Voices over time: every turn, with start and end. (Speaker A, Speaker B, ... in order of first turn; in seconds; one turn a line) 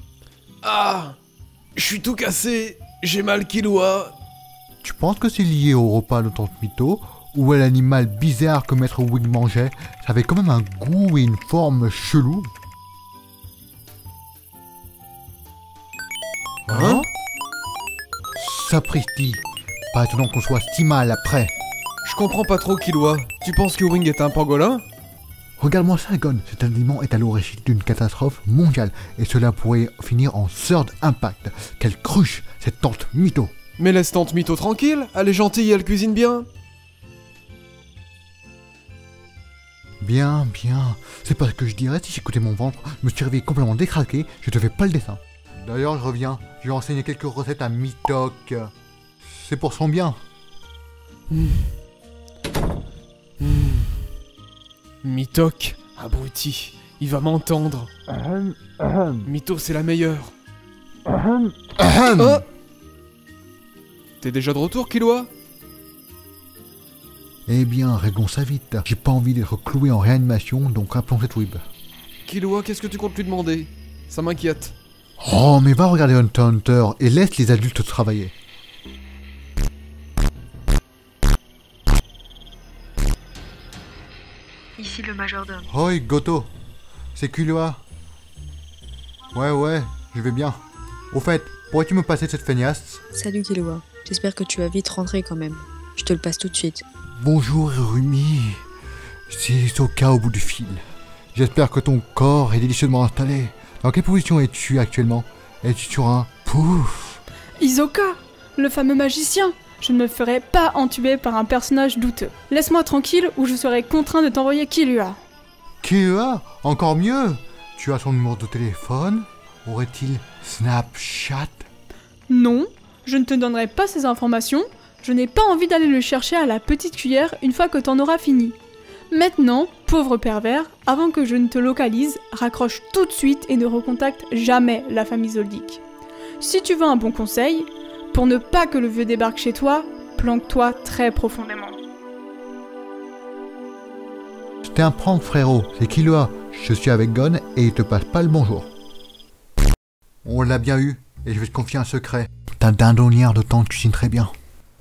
Speaker A: 0.6-1.2
Speaker A: 1.8-4.1
Speaker B: 4.8-12.5
Speaker B: 16.7-17.1
Speaker A: 16.7-17.1
Speaker B: 18.4-21.5
Speaker A: 22.0-24.8
Speaker B: 25.6-33.5
Speaker A: 33.8-36.5
Speaker B: 40.0-48.7
Speaker B: 49.3-50.2
Speaker A: 51.3-51.7
Speaker A: 53.4-54.0
Speaker A: 55.0-57.9
Speaker B: 58.1-59.2
Speaker A: 59.2-60.3
Speaker B: 61.1-62.4
Speaker A: 62.2-62.4
Speaker A: 64.2-65.3
Speaker B: 67.5-71.6
Speaker A: 72.2-74.7
Speaker B: 75.2-78.3
Speaker C: 84.8-85.7
Speaker B: 85.7-86.5
Speaker B: 87.2-87.8
Speaker B: 89.3-90.6
Speaker B: 91.1-93.0
Speaker C: 93.1-96.8
Speaker B: 97.2-98.6
Speaker B: 99.3-100.8
Speaker B: 101.3-107.2
Speaker D: 107.6-115.2
Speaker B: 115.8-121.6
Speaker D: 122.3-128.5
Speaker D: 129.1-135.8
Speaker D: 136.4-141.8
Speaker B: 144.7-148.7
Speaker B: 150.2-154.3